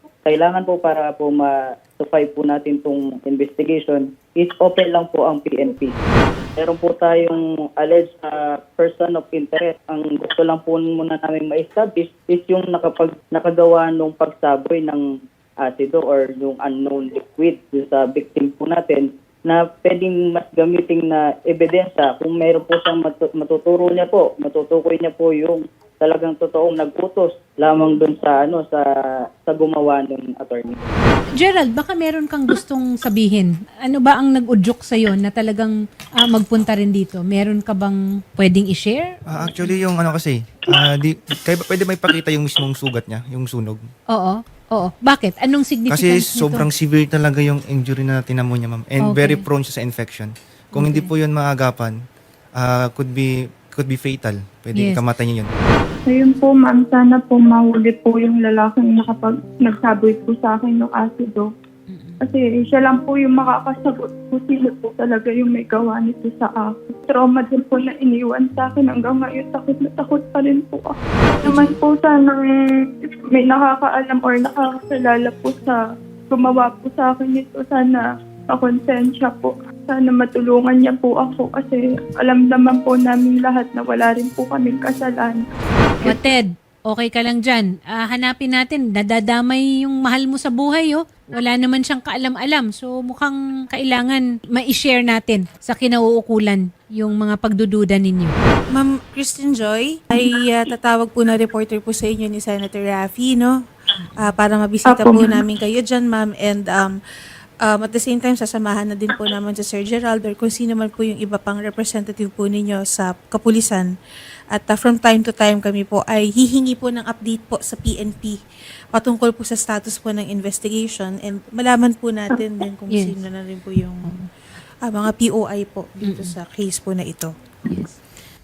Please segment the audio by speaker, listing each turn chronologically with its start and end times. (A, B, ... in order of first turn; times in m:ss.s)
0:00.2-0:06.0 A
0:06.6-0:15.0 A
0:15.6-0:30.8 A
0:31.4-0:39.2 B
0:39.3-0:43.9 C
0:44.1-0:46.7 B
0:45.9-0:52.0 C
0:49.0-0:49.4 B
0:50.7-0:51.1 B
0:52.6-0:55.5 C
0:54.8-0:55.0 B
0:56.1-1:01.5 D
1:01.9-1:02.2 B
1:02.2-1:12.5 D
1:11.4-1:11.8 B
1:13.3-1:25.4 D
1:26.0-1:26.3 D
1:26.0-1:38.3 B
1:38.7-1:43.5 E
1:44.2-1:47.0 E
1:44.9-1:45.4 D
1:47.6-1:53.9 E
1:54.5-1:58.4 E
1:59.0-2:04.1 E
2:04.8-2:07.3 E
2:06.0-2:06.3 B